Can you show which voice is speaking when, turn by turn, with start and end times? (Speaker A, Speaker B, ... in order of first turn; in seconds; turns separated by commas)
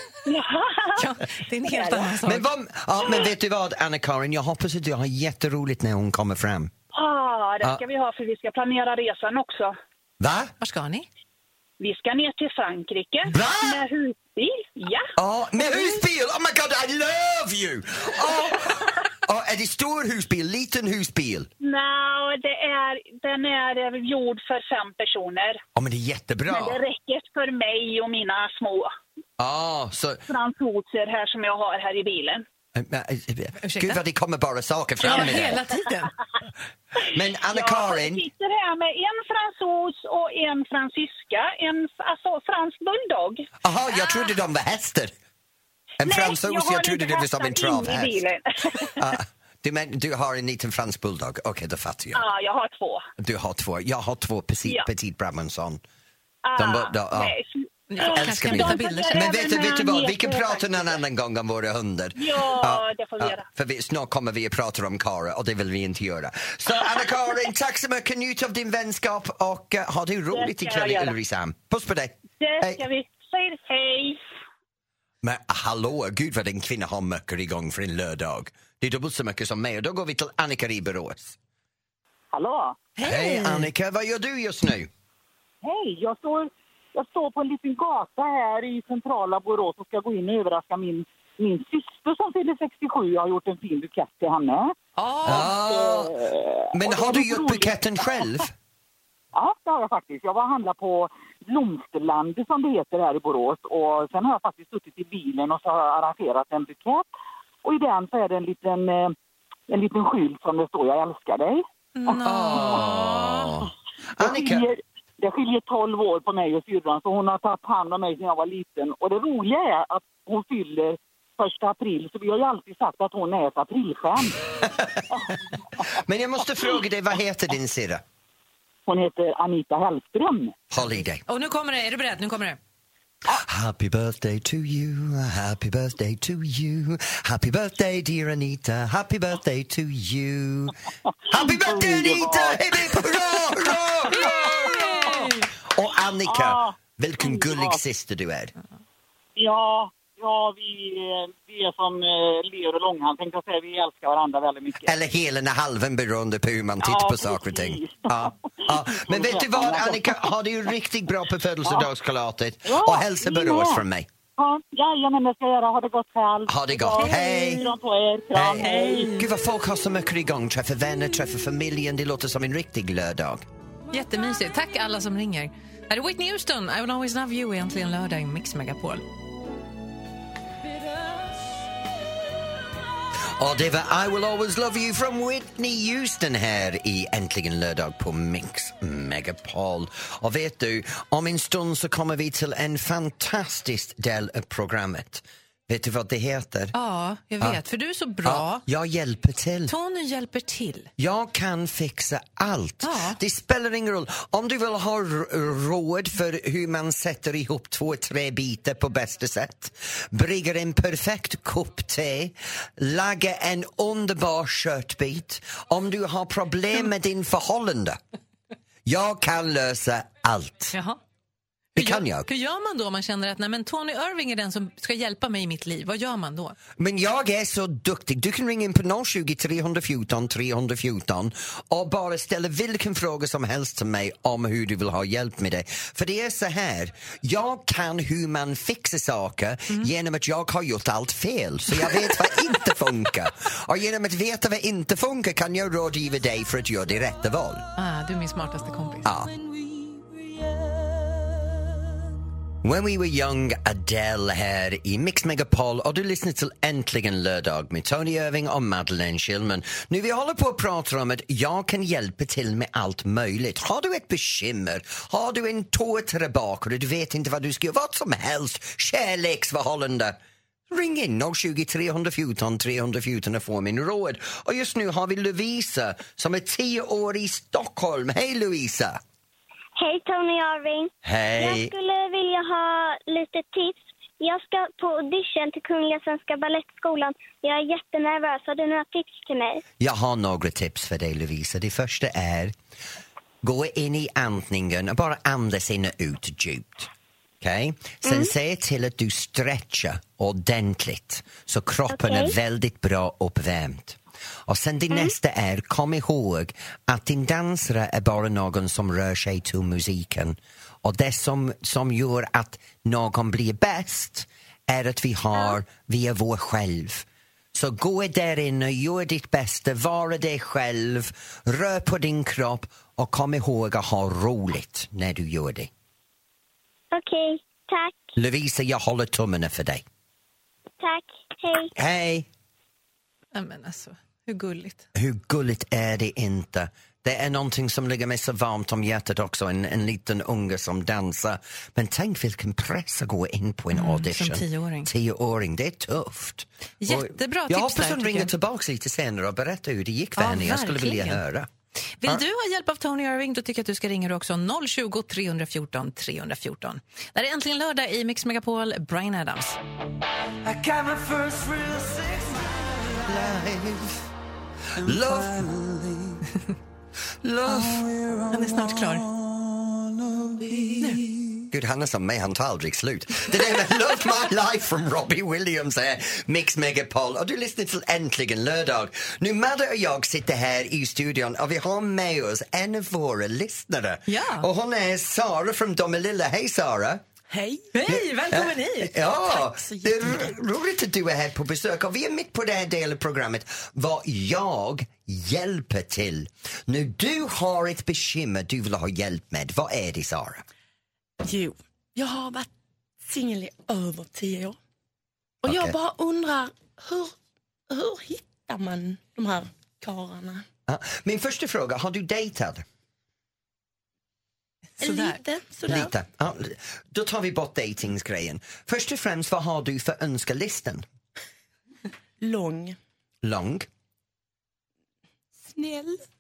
Speaker A: 0.3-1.0, Speaker B: 1.0-2.5, Speaker C: 2.2-6.7, Speaker A: 6.9-9.7, Speaker C: 10.2-10.5, Speaker B: 10.6-11.1, Speaker A: 11.8-16.0, Speaker C: 13.3-13.8, Speaker C: 15.2-21.5, Speaker A: 21.6-25.6, Speaker C: 25.8-26.8, Speaker A: 26.5-28.9, Speaker C: 29.4-30.2, Speaker A: 30.3-32.4, Speaker C: 32.7-35.6, Speaker B: 33.6-34.0, Speaker B: 35.0-36.1, Speaker C: 37.1-38.2, Speaker A: 37.5-43.5, Speaker C: 43.6-45.1, Speaker C: 46.0-48.1, Speaker A: 46.0-49.1, Speaker C: 49.0-52.2, Speaker A: 52.1-53.0, Speaker C: 53.2-55.8, Speaker A: 56.5-60.9, Speaker C: 56.6-57.3, Speaker B: 57.9-59.2, Speaker C: 58.1-72.8, Speaker A: 62.2-63.4, Speaker A: 70.3-71.1, Speaker A: 72.4-74.2, Speaker C: 75.2-81.4, Speaker D: 82.3-83.0, Speaker B: 83.0-83.7, Speaker C: 83.0-84.9, Speaker D: 85.6-94.7, Speaker B: 95.0-95.5, Speaker C: 95.2-96.2, Speaker D: 95.2-97.8, Speaker C: 96.7-98.5, Speaker D: 99.3-107.1, Speaker D: 107.6-109.2, Speaker D: 109.7-112.9, Speaker B: 112.0-113.6, Speaker C: 112.2-114.7, Speaker D: 114.2-124.4, Speaker C: 124.6-125.3, Speaker C: 125.9-128.0, Speaker D: 128.9-130.6, Speaker C: 130.7-131.2, Speaker B: 131.3-132.6, Speaker C: 133.3-140.8, Speaker D: 141.3-143.2, Speaker C: 141.3-148.5, Speaker B: 144.1-145.5, Speaker D: 144.3-145.3, Speaker D: 146.3-147.8, Speaker D: 149.4-154.9, Speaker C: 154.8-164.1, Speaker D: 156.8-160.3, Speaker D: 162.7-163.8, Speaker D: 164.4-169.2, Speaker C: 166.5-167.7, Speaker C: 168.3-173.4, Speaker B: 173.9-179.0, Speaker C: 183.3-196.7, Speaker B: 196.7-198.6, Speaker C: 198.2-199.7, Speaker B: 199.7-200.9, Speaker C: 201.0-218.0, Speaker B: 202.8-203.2, Speaker C: 218.8-220.8, Speaker B: 220.7-221.0, Speaker C: 221.8-222.3, Speaker B: 221.8-226.6, Speaker C: 226.8-247.6, Speaker B: 247.8-249.1, Speaker C: 249.0-249.3, Speaker C: 252.6-270.2, Speaker C: 270.7-279.0, Speaker E: 279.8-289.6, Speaker C: 281.0-281.7, Speaker C: 289.8-292.6, Speaker C: 293.4-296.9, Speaker C: 297.4-325.7, Speaker E: 298.1-298.3, Speaker E: 301.9-302.3, Speaker E: 326.9-328.1, Speaker C: 328.2-329.8, Speaker E: 330.8-331.7, Speaker C: 331.8-332.3, Speaker B: 333.3-334.8, Speaker C: 334.9-351.5, Speaker B: 343.7-344.9, Speaker B: 346.8-348.3, Speaker B: 350.2-351.2, Speaker B: 352.0-359.6, Speaker C: 360.4-364.1, Speaker C: 364.8-366.2, Speaker C: 367.2-368.2, Speaker B: 368.3-369.1, Speaker C: 370.2-387.0, Speaker B: 384.1-384.5, Speaker F: 387.3-387.7, Speaker B: 387.7-389.4, Speaker C: 387.9-400.4, Speaker F: 401.2-402.5, Speaker F: 403.0-404.6, Speaker F: 405.4-407.1, Speaker C: 405.4-405.8, Speaker F: 407.7-410.5, Speaker C: 410.7-412.6, Speaker F: 414.8-415.9, Speaker B: 414.8-415.2, Speaker C: 415.7-420.9, Speaker F: 422.2-422.8, Speaker C: 423.2-423.7, Speaker F: 425.4-426.0